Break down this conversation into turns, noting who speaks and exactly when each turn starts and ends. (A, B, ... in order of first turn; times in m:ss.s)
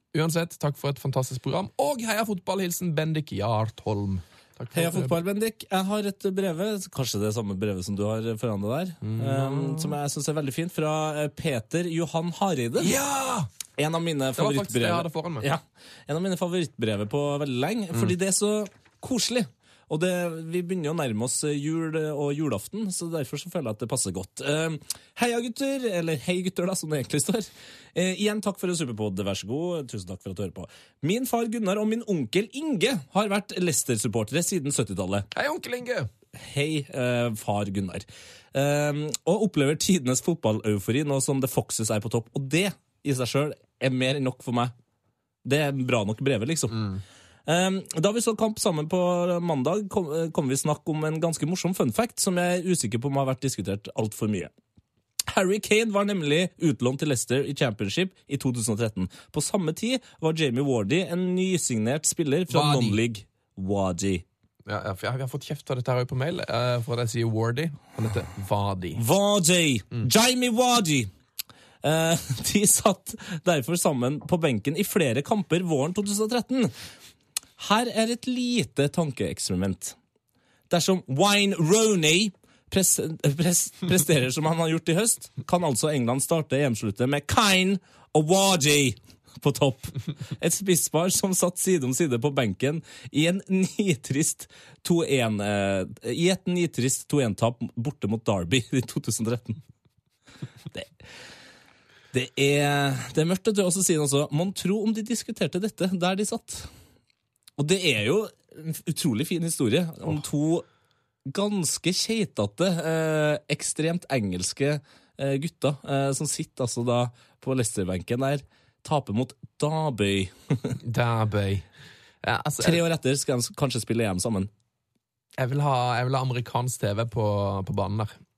0:00.1-0:05.2 A
0:04.7-0:12.9 B
0:09.0-0:10.0 A
0:12.8-0:13.5 A
0:13.8-0:35.3 B
0:14.4-0:15.5 A
0:35.3-0:36.1 A
0:36.4-0:44.7 B
0:45.4-0:46.9 B
0:46.7-0:47.0 A
0:47.5-0:54.5 B
0:55.3-1:04.2 B
1:02.5-1:03.0 A
1:04.6-1:09.0 A
1:09.0-1:11.1 B
1:11.8-1:16.7 B
1:17.6-1:20.0 B
1:20.7-1:39.6 B
1:42.1-1:46.7 B
1:47.6-1:50.6 B
1:51.3-2:00.8 B
2:00.8-2:01.6 A
2:02.2-2:02.8 A
2:02.6-2:04.5 B
2:05.4-2:08.1 A